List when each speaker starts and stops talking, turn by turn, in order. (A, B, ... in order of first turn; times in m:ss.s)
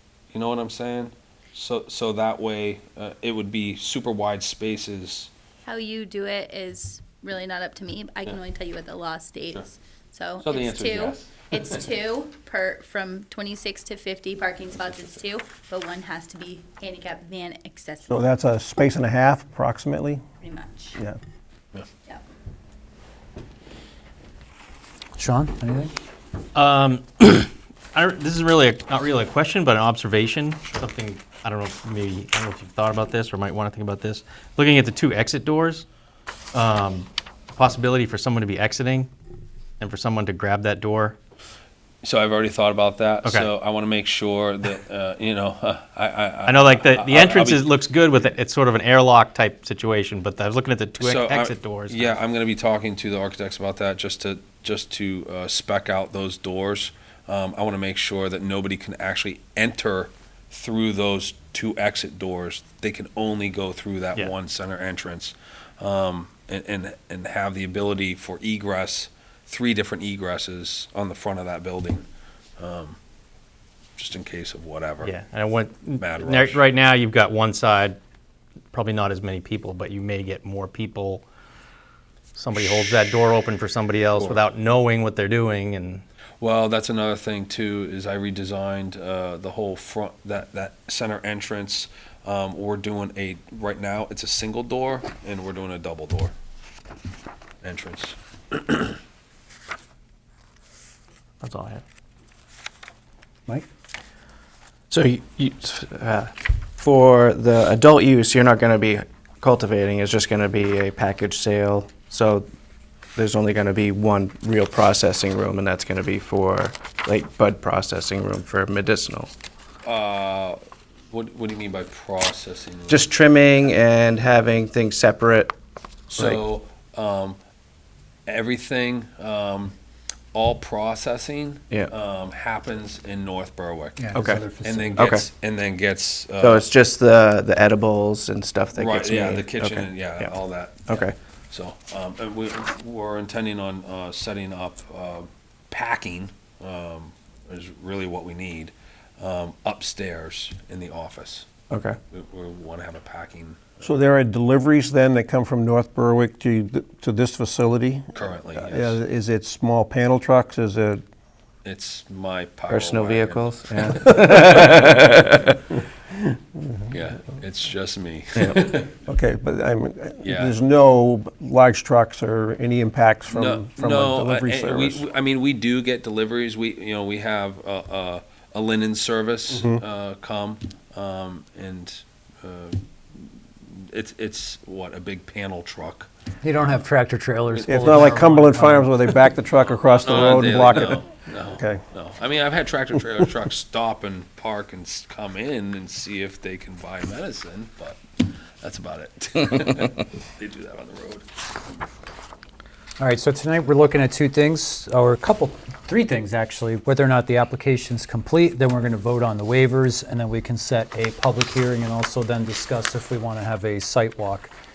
0:00.3-0:05.3 A
0:05.6-0:18.3 B
0:10.4-0:11.9 A
0:18.1-0:20.2 C
0:20.4-0:21.0 B
0:25.2-0:25.9 D
0:26.5-0:35.8 E
0:36.5-0:39.1 E
0:39.8-0:41.2 E
0:42.0-0:47.7 A
0:43.2-0:43.5 E
0:46.4-0:52.2 E
0:51.0-1:12.0 A
1:12.6-1:13.0 A
1:14.0-1:15.1 A
1:15.0-1:18.0 E
1:16.0-1:16.6 A
1:18.7-1:21.2 E
1:22.3-1:26.0 E
1:24.1-1:24.4 A
1:26.4-1:36.3 A
1:37.6-1:39.0 A
1:41.4-1:41.8 E
1:44.9-1:52.5 F
1:53.1-1:59.3 F
1:59.8-2:00.6 A
2:01.1-2:03.1 A
2:02.9-2:05.5 F
2:06.1-2:06.4 F
2:06.2-2:07.4 A
2:08.2-2:09.7 A
2:10.3-2:14.0 A
2:14.0-2:15.1 D
2:14.1-2:15.3 F
2:14.6-2:16.7 A
2:16.4-2:21.2 F
2:18.8-2:31.5 A
2:31.7-2:32.0 F
2:32.1-2:33.8 A
2:33.8-2:41.0 C
2:38.1-2:39.0 A
2:41.6-2:44.6 A
2:42.7-2:45.6 F
2:44.4-2:44.8 C
2:46.1-2:46.9 C
2:46.9-2:49.0 A
2:49.0-2:55.0 C
2:50.2-2:50.5 A
2:53.3-3:03.3 A
2:59.5-2:59.8 C
3:03.8-3:06.1 A
3:06.4-3:08.9 D
3:07.5-3:08.1 A
3:07.7-3:11.8 C
3:09.6-3:18.0 A
3:18.6-3:21.3 A
3:23.0-3:34.5 D